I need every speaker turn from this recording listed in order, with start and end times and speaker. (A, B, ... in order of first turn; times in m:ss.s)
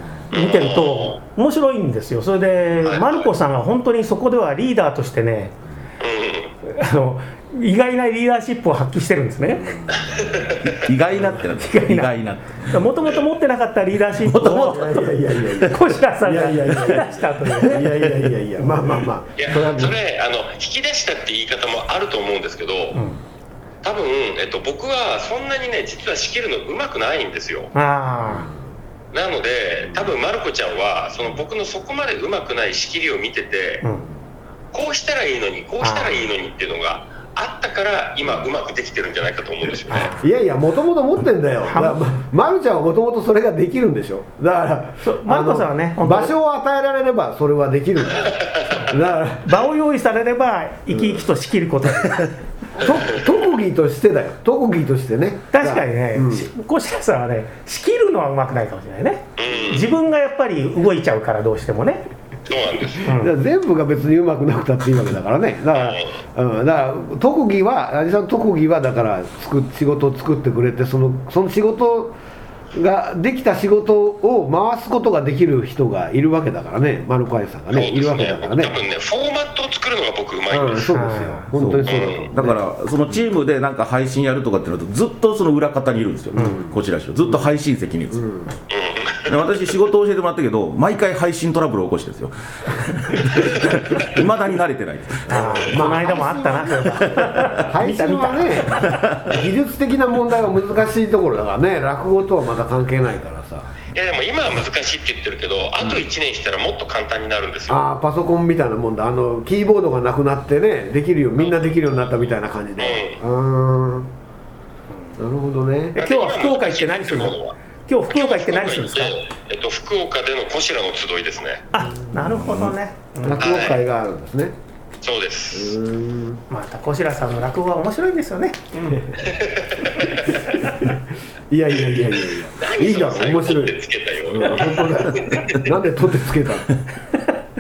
0:00.3-0:05.6 A
0:00.3-0:01.2 B
0:02.8-0:03.2 B
0:06.0-0:06.5 B
0:06.6-0:09.9 A
0:09.6-0:10.6 C
0:10.0-0:10.7 B
0:10.6-0:12.8 D
0:11.3-0:12.1 A
0:12.7-0:14.9 A
0:14.2-0:15.7 D
0:14.6-0:20.0 C
0:15.6-0:17.9 A
0:17.7-0:18.3 D
0:18.6-0:19.1 A
0:19.4-0:23.0 B
0:22.9-0:23.2 A
0:23.8-0:27.7 B
0:27.7-0:28.5 A
0:29.1-0:33.8 B
0:33.8-0:34.1 A
0:34.7-0:40.1 B
0:35.8-0:36.3 A
0:39.9-0:40.3 A
0:40.2-0:49.6 C
0:41.7-0:42.0 A
0:45.0-0:46.3 A
0:48.2-0:48.6 B
0:48.7-0:52.4 A
0:50.9-0:51.2 C
0:52.7-0:56.5 C
0:55.5-1:02.1 A
0:59.4-1:00.0 B
1:02.5-1:03.1 B
1:03.0-1:03.3 A
1:03.1-1:12.2 C
1:05.7-1:06.2 B
1:12.7-1:18.8 C
1:17.7-1:21.0 B
1:20.5-1:22.6 C
1:20.9-1:21.5 A
1:21.5-1:28.3 D
1:21.8-1:22.3 B
1:26.3-1:27.5 C
1:28.1-1:28.5 C
1:28.7-1:29.4 B
1:29.3-1:35.8 D
1:35.3-1:43.7 C
1:35.3-1:39.1 A
1:37.1-1:37.7 D
1:38.8-1:39.3 D
1:43.9-1:47.8 B
1:47.7-1:54.1 C
1:52.8-1:53.2 B
1:55.2-1:56.0 C
1:55.9-1:59.1 A
1:56.0-1:57.6 B
1:58.1-2:01.6 B
2:01.7-2:03.6 A
2:02.2-2:02.8 D
2:03.2-2:04.5 C
2:03.4-2:03.8 B
2:05.0-2:05.8 B
2:05.5-2:06.4 C
2:06.5-2:09.1 A
2:09.2-2:10.4 B
2:11.5-2:16.7 C
2:11.9-2:15.7 B